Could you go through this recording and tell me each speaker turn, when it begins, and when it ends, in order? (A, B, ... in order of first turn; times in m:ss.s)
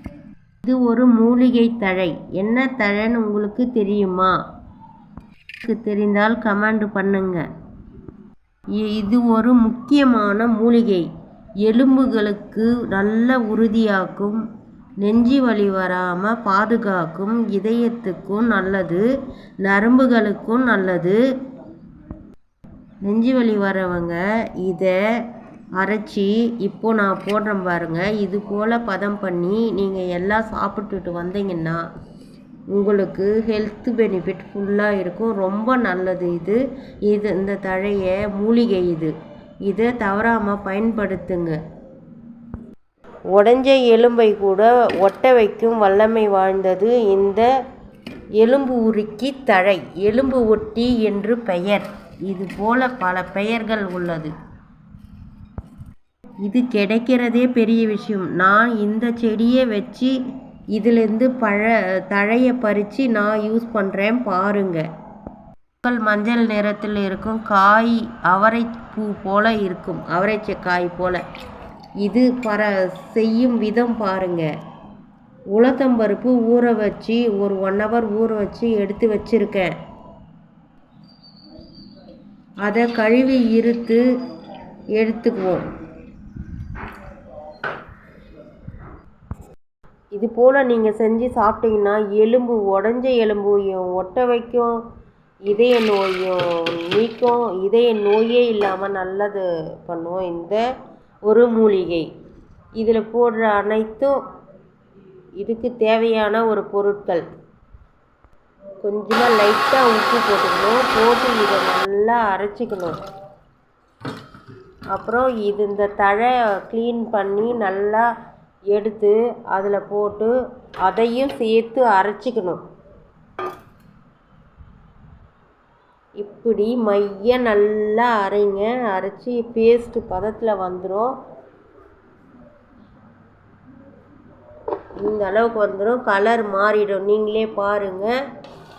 0:00.6-0:04.4 A
0:05.6-0:07.4 A
0:08.8-0:11.1 A
0:11.6-0:14.4 A
0:15.0-0:19.0 A
0:19.6-0:21.2 A
0:23.0-0:31.8 A
0:32.7-0:39.1 A
0:39.7-0:41.6 A
0:43.3-0:47.5 A
0:48.4-0:54.3 A
0:56.4-1:00.2 A
1:00.8-1:04.9 A
1:05.8-1:11.2 A
1:12.0-1:14.5 A
1:15.5-1:19.8 A
1:22.6-1:24.0 A
1:25.0-1:25.6 A
1:30.1-1:34.8 A
1:35.5-1:40.6 A
1:41.3-1:42.1 A
1:42.8-1:44.1 A
1:45.4-1:47.3 A
1:48.8-1:53.0 A
1:54.9-1:58.1 A
1:58.7-2:00.3 A
2:00.8-2:02.6 A
2:06.2-2:11.1 A
2:15.0-2:18.1 A